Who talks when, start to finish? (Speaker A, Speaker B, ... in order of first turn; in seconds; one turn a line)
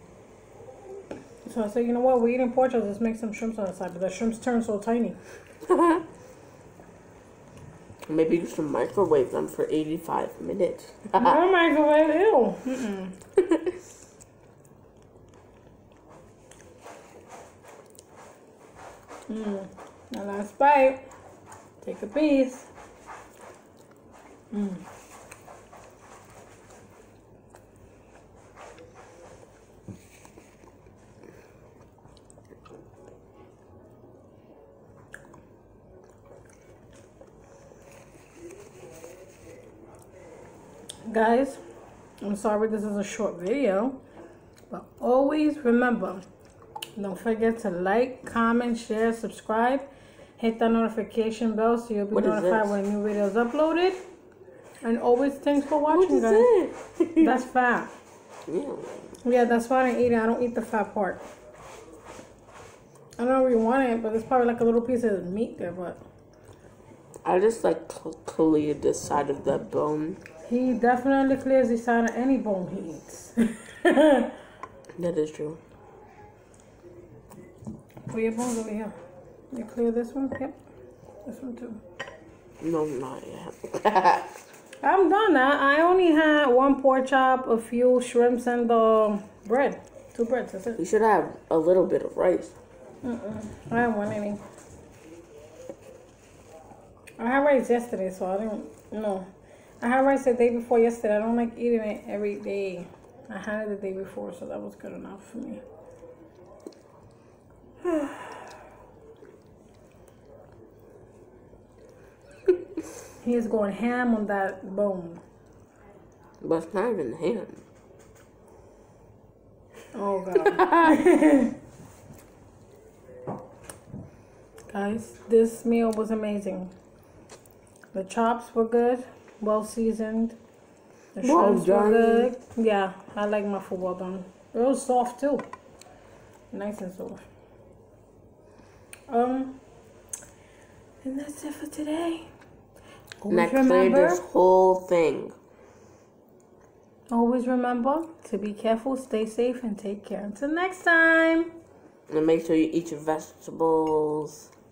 Speaker A: 1.4-5.2
Speaker B: 5.7-6.0
Speaker B: 8.1-11.4
Speaker A: 11.2-13.2
Speaker A: 19.3-21.1
Speaker A: 21.8-22.7
Speaker A: 24.5-24.9
Speaker A: 41.1-41.6
Speaker A: 42.2-44.0
Speaker A: 44.7-46.2
Speaker A: 47.0-54.0
Speaker B: 52.1-52.8
Speaker A: 54.8-56.5
Speaker B: 55.9-57.4
Speaker A: 57.2-57.9
Speaker B: 58.5-59.2
Speaker A: 59.2-61.2
Speaker A: 63.2-66.0
Speaker B: 67.2-70.2
Speaker A: 70.4-74.3
Speaker B: 75.0-75.6
Speaker A: 78.1-79.0
Speaker A: 79.5-80.6
Speaker A: 81.2-81.8
Speaker B: 82.6-84.3
Speaker A: 84.8-90.8
Speaker B: 90.8-92.5
Speaker A: 93.0-94.4
Speaker A: 97.2-99.3
Speaker A: 99.8-105.6
Speaker A: 107.8-108.4
Speaker A: 113.2-115.2
Speaker B: 116.4-117.6
Speaker A: 119.9-121.6
Speaker B: 120.5-120.9
Speaker A: 124.7-126.7
Speaker A: 127.9-130.4
Speaker A: 131.2-135.5
Speaker B: 131.2-132.3
Speaker A: 136.5-137.2
Speaker A: 139.1-139.6
Speaker A: 141.0-142.3
Speaker A: 143.2-144.2
Speaker B: 143.3-145.4
Speaker A: 147.1-151.5
Speaker B: 152.1-154.5